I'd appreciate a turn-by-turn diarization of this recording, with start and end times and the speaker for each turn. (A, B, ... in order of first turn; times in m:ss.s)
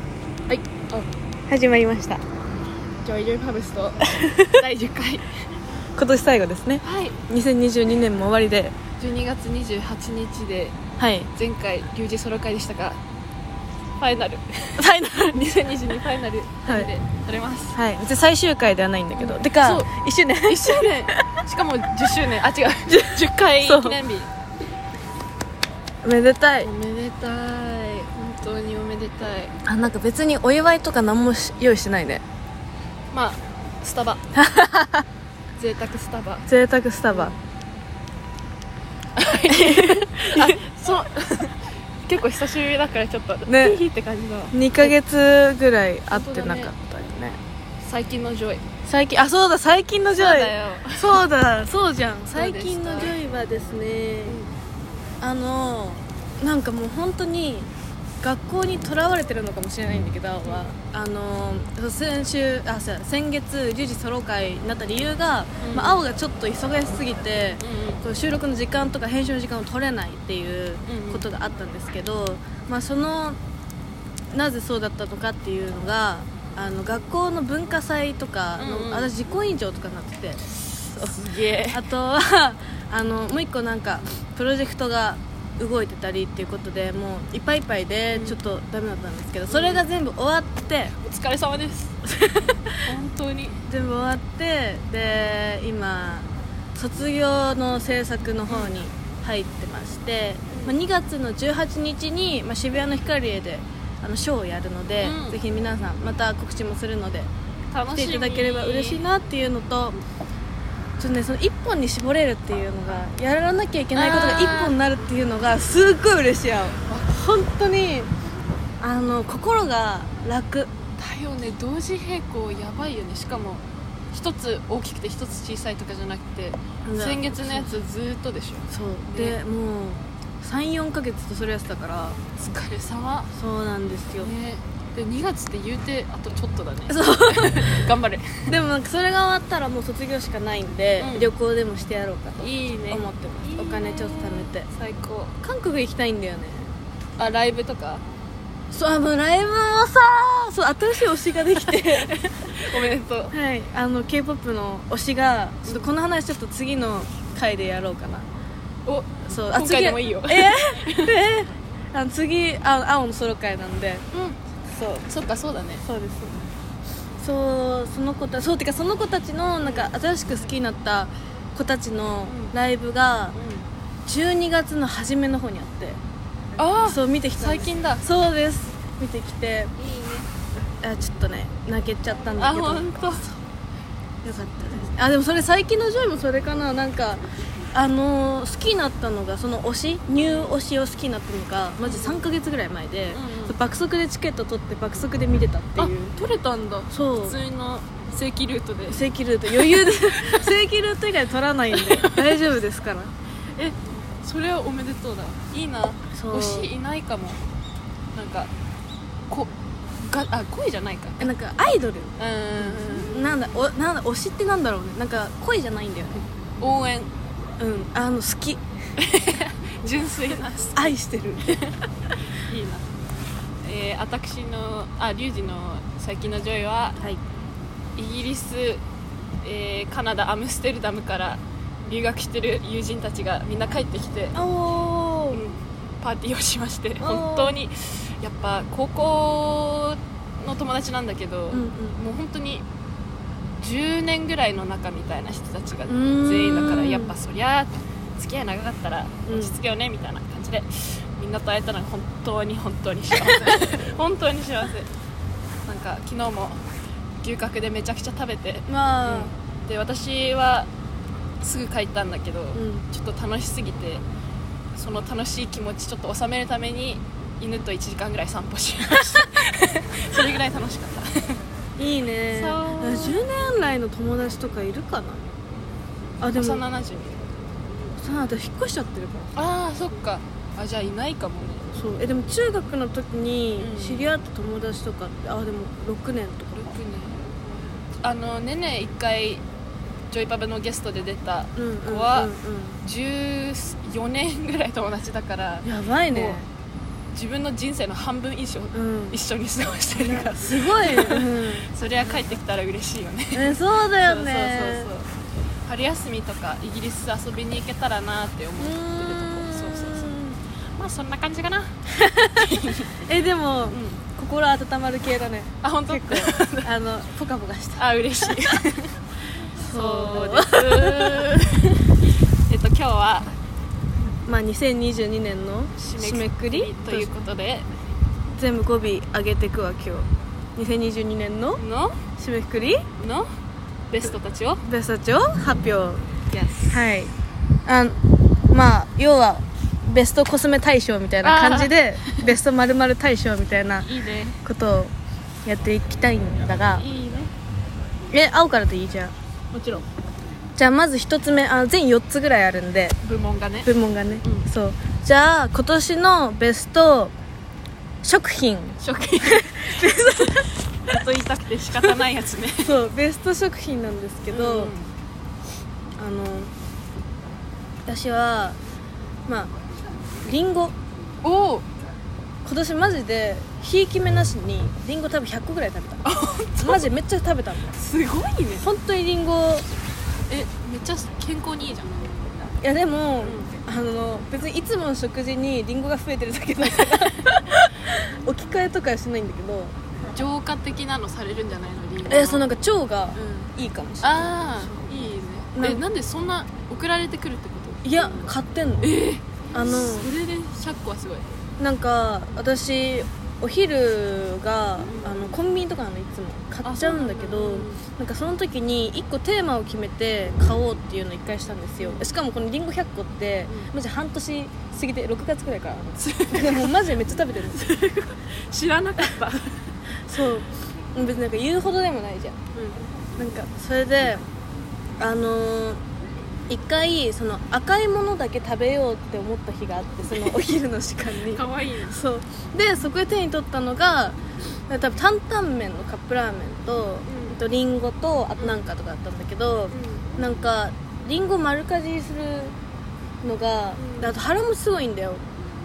0:00.5-0:01.1 A
0:01.5-0:02.2 B
0:03.0-0:05.3 A
0:04.0-0:04.6 B
0:06.0-0:08.7 B
0:06.8-0:07.2 A
0:09.0-0:10.8 A
0:11.0-0:11.3 B
0:11.3-0:13.0 A
0:14.0-0:17.8 A
0:14.7-0:15.5 B
0:17.7-0:21.4 B
0:19.2-0:19.9 A
0:20.4-0:24.3 A
0:22.9-0:24.0 B
0:26.0-0:26.7 B
0:26.6-0:29.5 A
0:29.6-0:32.2 B
0:33.1-0:34.2 A
0:34.3-0:35.0 B
0:35.6-0:36.5 A
0:36.5-0:37.3 B
0:37.1-0:37.4 A
0:39.1-0:41.5 A
0:39.5-0:40.6 B
0:42.1-0:45.0 A
0:43.5-0:43.8 B
0:44.5-0:47.4 B
0:46.1-0:46.7 A
0:47.8-0:48.6 A
0:48.8-0:54.4 B
0:50.2-0:51.2 A
0:52.3-0:53.2 A
0:55.2-0:57.7 B
0:58.2-1:13.4 B
1:05.6-1:06.0 A
1:07.6-1:08.0 A
1:10.9-1:11.2 A
1:14.3-1:20.4 B
1:18.6-1:19.1 A
1:20.6-1:21.8 A
1:20.9-1:21.2 B
1:21.7-1:30.9 B
1:28.1-1:28.4 A
1:29.5-1:29.8 A
1:31.0-1:32.1 A
1:32.1-1:32.7 B
1:32.8-1:33.6 A
1:33.7-1:47.3 B
1:38.5-1:38.7 A
1:45.0-1:45.4 A
1:47.7-1:49.0 A
1:47.9-1:50.0 B
1:51.0-1:58.1 B
1:53.9-1:54.7 A
1:58.8-2:00.7 B
2:01.0-2:09.4 A
2:06.8-2:07.8 B
2:08.7-2:12.2 B
2:12.4-2:13.3 A
2:13.3-2:14.3 B
2:14.2-2:18.5 A
2:16.9-2:17.8 B
2:18.5-2:24.7 B
2:21.0-2:21.3 A
2:22.4-2:25.4 A
2:25.4-2:26.7 B
2:27.2-2:28.0 A
2:28.7-2:38.2 B
2:31.6-2:33.3 A
2:38.8-2:41.2 A
2:39.3-2:44.0 B
2:44.1-2:44.4 A
2:44.7-2:45.1 B
2:45.1-2:45.8 A
2:45.8-2:46.5 B
2:47.2-2:53.4 B
2:49.6-2:49.9 A
2:52.3-2:52.5 A
2:53.3-2:53.6 A
2:54.0-2:56.0 B
2:56.6-2:58.0 A
2:56.8-2:59.7 B
2:59.8-3:00.2 A
3:00.8-3:02.9 B
3:02.4-3:03.4 A
3:04.2-3:07.2 B
3:07.7-3:16.1 B
3:10.2-3:10.6 A
3:11.8-3:12.2 A
3:13.1-3:13.6 A
3:15.8-3:20.5 A
3:16.9-3:17.4 B
3:18.9-3:23.1 B
3:21.7-3:22.4 A
3:23.6-3:27.4 A
3:26.1-3:26.7 B
3:28.2-3:28.5 A
3:30.0-3:31.3 A
3:31.2-3:36.2 B
3:32.2-3:33.1 A
3:36.6-3:37.1 A
3:37.6-3:38.6 B
3:39.0-3:40.8 A
3:40.7-3:41.5 B
3:41.4-3:42.9 A
3:43.6-3:47.0 A
3:48.0-3:48.8 A
3:49.4-3:54.4 A
3:54.3-3:55.4 B
3:55.3-4:02.6 A
3:57.0-3:57.5 B
4:01.5-4:02.0 B
4:03.6-4:14.9 A
4:05.9-4:07.1 B
4:09.3-4:09.5 B
4:13.1-4:13.6 B
4:15.7-4:16.6 A
4:17.2-4:20.7 A
4:18.7-4:19.3 B
4:21.4-4:24.0 A
4:22.5-4:22.8 B
4:24.7-4:31.4 A
4:31.8-4:35.3 B
4:32.3-4:33.2 A
4:36.2-4:36.6 B
4:36.3-4:37.2 A
4:38.0-4:39.3 B
4:39.3-4:41.6 A
4:41.7-4:46.7 B
4:43.6-4:44.1 A
4:46.6-4:47.3 A
4:48.0-4:49.4 A
4:50.1-4:52.3 A
4:51.6-4:52.8 B
4:52.8-4:56.4 A
4:55.6-4:56.4 B
4:57.1-5:05.1 A
4:58.7-4:59.2 B
4:59.9-5:01.7 B
5:03.3-5:04.9 B
5:05.6-5:10.2 A
5:08.6-5:10.4 B
5:10.8-5:11.8 A
5:11.9-5:18.6 B
5:12.3-5:12.9 A
5:13.7-5:14.0 A
5:15.6-5:16.7 A
5:17.8-5:18.9 A
5:19.6-5:21.3 B
5:19.7-5:21.9 A
5:22.5-5:23.3 A
5:24.2-5:27.1 B
5:25.8-5:27.9 A
5:28.4-5:31.6 B
5:31.6-5:32.0 A
5:32.2-5:32.8 B
5:33.0-5:33.3 A
5:33.9-5:34.6 A
5:34.6-5:36.0 B
5:36.3-5:36.8 A
5:36.7-5:37.1 B
5:37.6-5:43.9 B
5:41.2-5:42.3 A
5:43.8-5:44.4 A
5:44.4-5:44.9 B
5:45.4-5:46.8 B
5:46.8-5:47.3 A
5:48.1-5:49.1 B
5:49.5-5:49.8 A
5:50.6-5:53.0 B
5:53.0-5:53.7 A
5:53.6-5:57.1 B
5:58.0-6:00.5 B
5:58.8-6:02.7 A
6:02.6-6:04.7 B
6:04.3-6:04.9 A
6:06.0-6:06.5 B
6:07.8-6:08.6 B
6:09.3-6:09.5 B
6:10.2-6:10.7 B
6:11.2-6:11.6 A
6:12.4-6:16.0 B
6:16.0-6:16.8 A
6:16.6-6:17.7 B
6:17.8-6:18.7 A
6:18.6-6:19.7 B
6:20.3-6:22.1 A
6:22.6-6:29.7 B
6:23.2-6:23.6 A
6:26.8-6:27.2 A
6:30.1-6:32.5 A
6:32.1-6:35.8 B
6:33.2-6:33.5 A
6:34.0-6:37.8 A
6:37.8-6:38.9 B
6:38.8-6:41.3 A
6:39.5-6:40.1 B
6:41.6-6:57.6 B
6:46.6-6:47.8 A
6:51.8-6:52.0 A
6:56.0-6:56.9 A
6:57.5-6:59.6 A
7:00.1-7:02.4 B
7:02.5-7:02.8 A
7:03.2-7:04.2 B
7:05.0-7:05.8 B
7:06.5-7:14.2 B
7:11.3-7:12.0 A
7:14.7-7:22.5 B
7:17.1-7:17.4 A
7:19.7-7:20.0 A
7:23.2-7:25.2 B
7:23.8-7:24.1 A